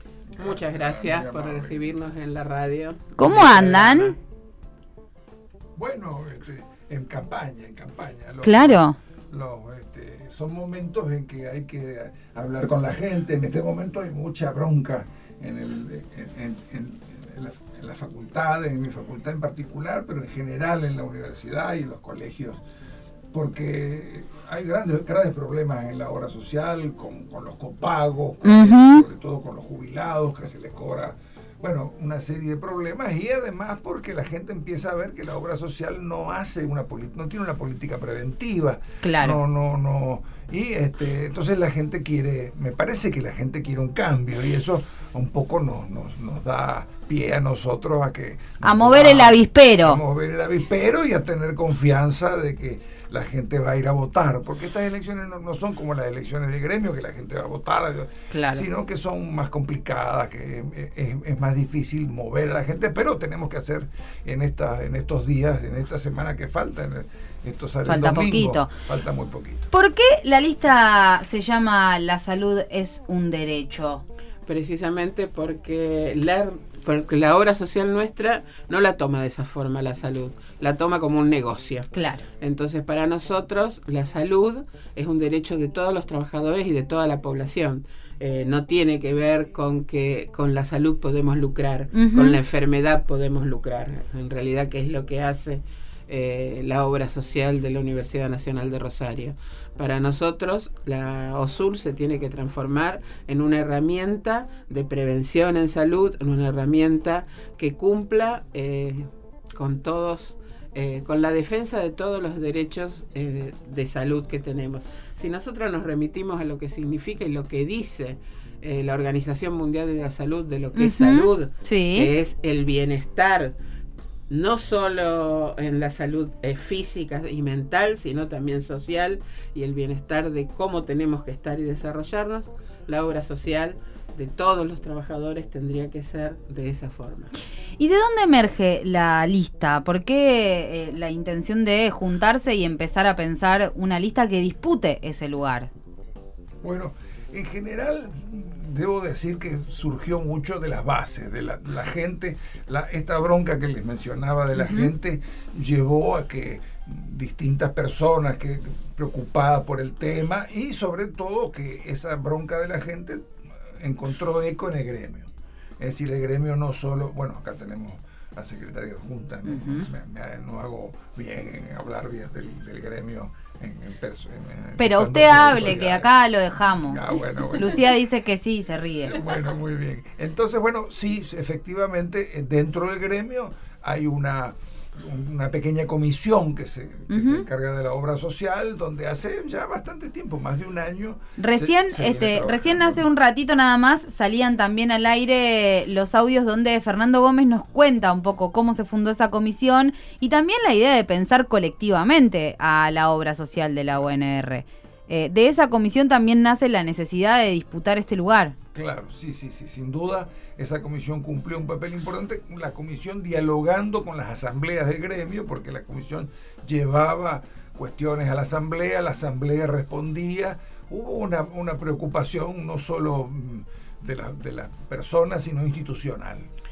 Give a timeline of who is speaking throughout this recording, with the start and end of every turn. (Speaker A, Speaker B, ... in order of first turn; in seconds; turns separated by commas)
Speaker A: 0.3-2.0, Speaker B: 0.4-4.2, Speaker C: 3.2-4.1, Speaker A: 5.8-22.6, Speaker C: 8.4-8.9, Speaker A: 23.3-69.7, Speaker C: 28.4-29.1, Speaker C: 39.0-39.4, Speaker C: 48.6-50.0, Speaker C: 58.3-58.6, Speaker C: 67.8-68.7, Speaker C: 69.7-74.0, Speaker B: 74.5-81.9, Speaker C: 81.9-82.2, Speaker B: 82.4-123.5, Speaker C: 91.9-92.4, Speaker C: 120.8-122.1, Speaker B: 124.3-137.3, Speaker C: 137.8-145.7, Speaker A: 146.6-176.1, Speaker C: 154.5-154.9, Speaker C: 169.4-169.9, Speaker C: 174.8-179.2, Speaker A: 176.8-177.9, Speaker A: 179.0-193.1, Speaker C: 187.1-187.4, Speaker C: 191.4-208.5, Speaker A: 208.7-226.5